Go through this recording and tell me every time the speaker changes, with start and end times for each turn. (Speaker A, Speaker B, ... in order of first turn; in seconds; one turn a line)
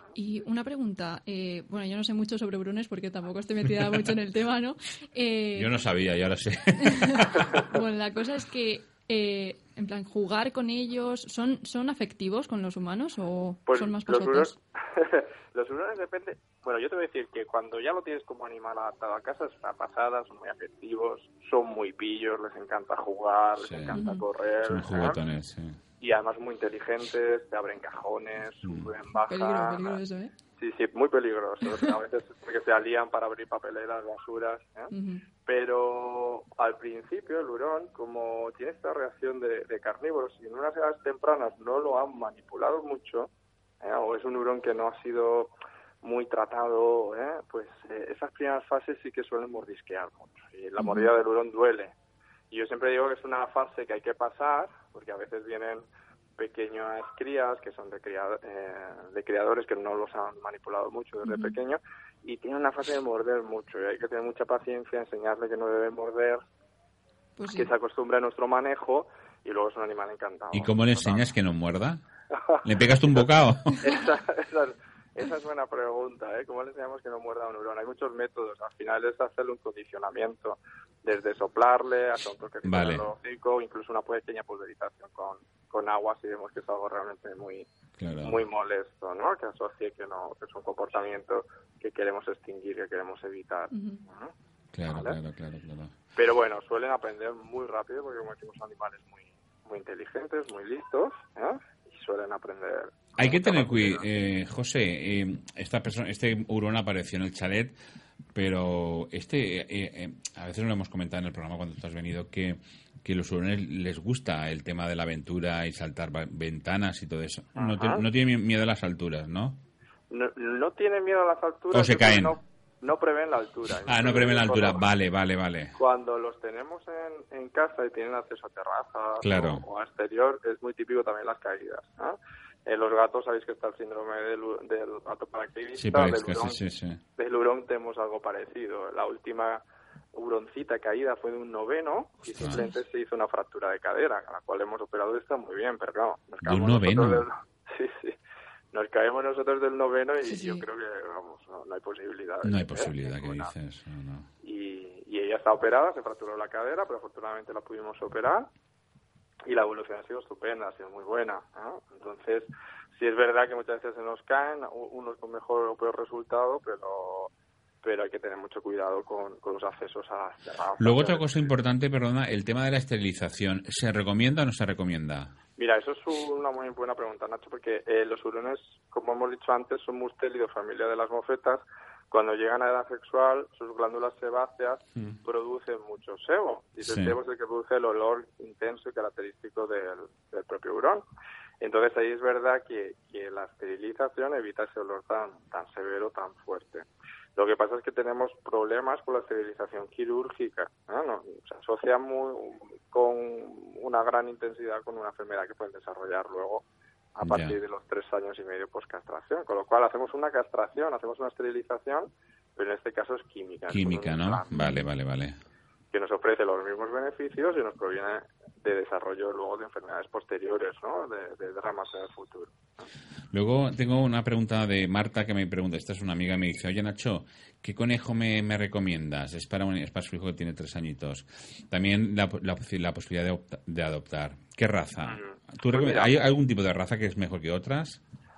Speaker A: 0.1-5.7
Speaker B: 5.5-7.5
Speaker A: 6.8-14.6
Speaker C: 13.7-25.2
Speaker B: 23.6-24.0
Speaker A: 23.9-24.2
Speaker B: 24.7-25.8
Speaker C: 26.0-30.0
Speaker B: 28.6-28.9
Speaker A: 29.3-30.3
Speaker C: 30.6-43.3
Speaker A: 34.9-35.2
Speaker C: 43.8-51.9
Speaker A: 50.8-51.1
Speaker C: 52.5-55.9
Speaker C: 56.4-66.4
Speaker A: 61.2-61.6
Speaker A: 67.4-67.7
Speaker C: 67.5-71.3
Speaker B: 70.5-72.0
Speaker B: 72.6-73.8
Speaker C: 73.8-87.7
Speaker B: 82.7-83.1
Speaker B: 88.0-88.4
Speaker C: 88.2-94.3
Speaker A: 93.7-94.0
Speaker B: 94.7-95.9
Speaker C: 94.9-95.2
Speaker C: 96.2-104.0
Speaker B: 103.2-107.8
Speaker B: 108.3-119.6
Speaker C: 117.6-118.0
Speaker C: 120.1-124.8
Speaker B: 121.7-122.4
Speaker B: 123.9-125.8
Speaker C: 125.8-136.6
Speaker B: 129.2-129.6
Speaker B: 135.8-137.0
Speaker C: 137.2-139.6
Speaker C: 140.1-148.2
Speaker B: 146.4-147.3
Speaker C: 148.7-153.5
Speaker A: 150.2-150.7
Speaker B: 152.4-154.3
Speaker C: 154.4-158.5
Speaker C: 159.5-167.3
Speaker C: 167.8-171.5
Speaker B: 170.8-175.3
Speaker C: 175.6-191.0
Speaker B: 186.8-187.2
Speaker C: 191.6-206.6
Speaker C: 207.2-214.5
Speaker B: 207.2-207.6
Speaker B: 213.7-215.4
Speaker A: 214.5-214.8
Speaker C: 215.9-222.9
Speaker B: 223.3-238.0
Speaker C: 235.1-236.2